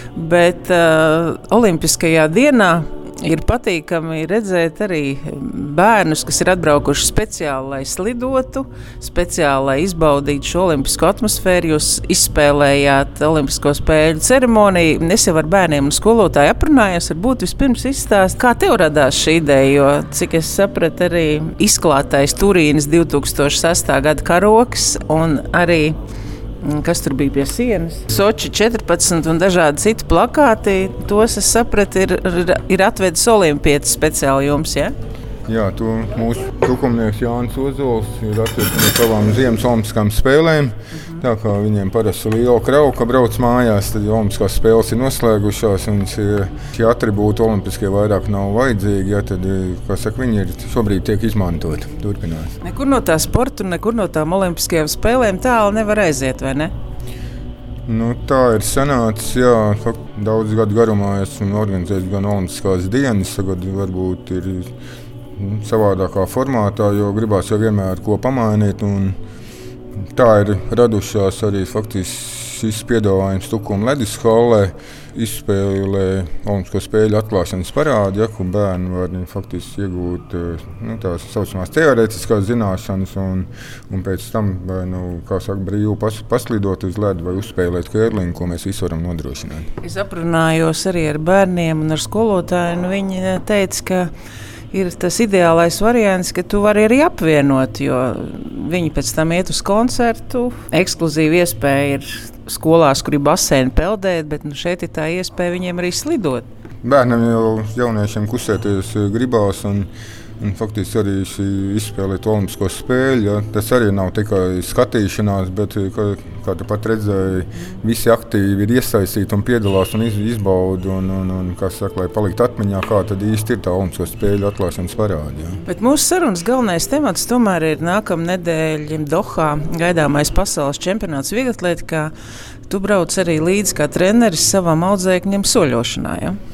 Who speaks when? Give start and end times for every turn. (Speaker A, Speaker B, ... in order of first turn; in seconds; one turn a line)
Speaker A: 0.1-26.0
Speaker A: 26.6-34.9
Speaker B: 35.5-52.6
Speaker A: 52.6-56.7
Speaker B: 57.9-64.7
Speaker B: 65.3-69.2
Speaker B: 70.1-89.7
Speaker A: 89.8-94.1
Speaker A: 94.7-106.5
Speaker B: 106.8-125.6
Speaker A: 125.7-132.1
Speaker A: 132.7-136.4